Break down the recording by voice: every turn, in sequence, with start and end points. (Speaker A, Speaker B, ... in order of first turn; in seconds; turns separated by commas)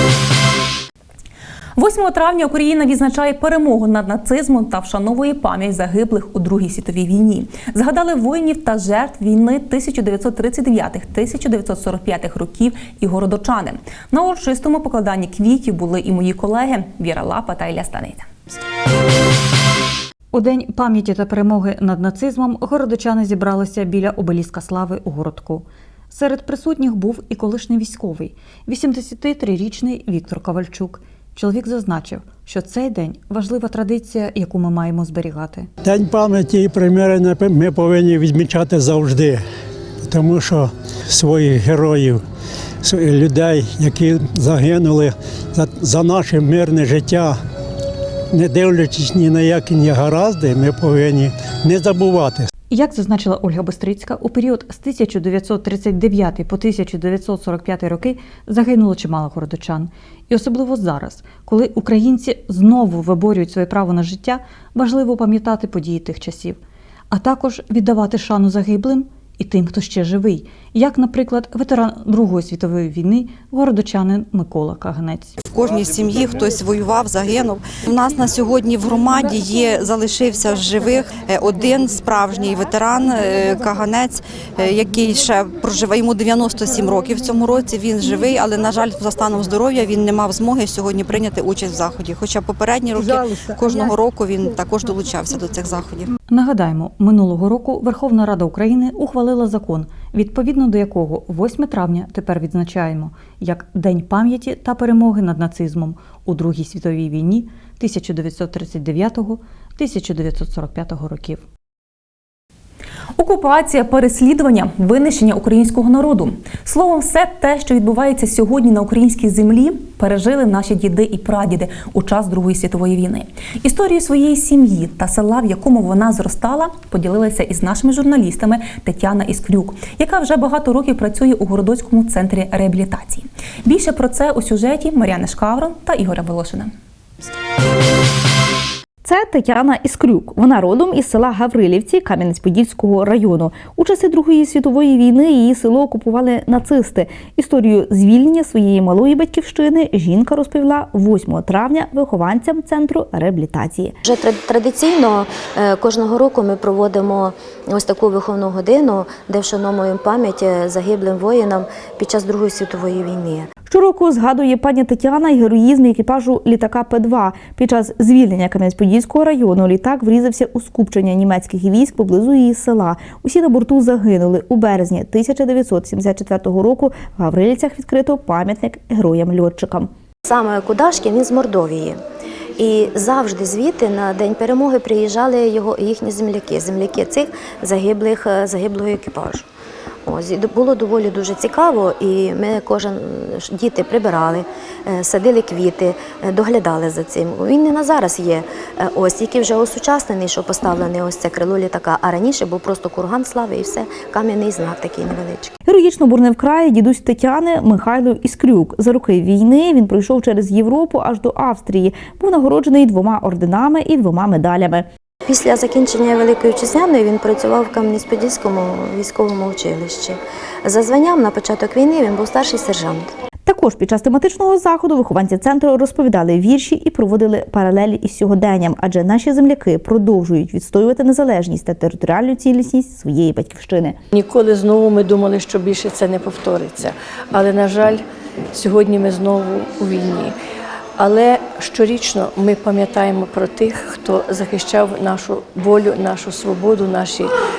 Speaker A: 1.8-18.3, Speaker B: 20.3-35.7, Speaker C: 35.8-39.4, Speaker C: 40.0-42.2, Speaker C: 42.8-47.4, Speaker C: 48.3-52.5, Speaker B: 52.7-66.6, Speaker B: 67.1-75.3, Speaker D: 75.5-96.1, Speaker B: 96.3-111.4, Speaker A: 113.2-136.7, Speaker E: 139.0-154.0, Speaker F: 154.0-163.5, Speaker E: 163.7-179.9, Speaker F: 180.2-182.0, Speaker F: 182.6-189.5, Speaker F: 190.1-205.5, Speaker E: 205.7-214.9, Speaker F: 215.3-223.1, Speaker E: 223.5-234.0, Speaker G: 234.1-240.4, Speaker G: 241.0-247.3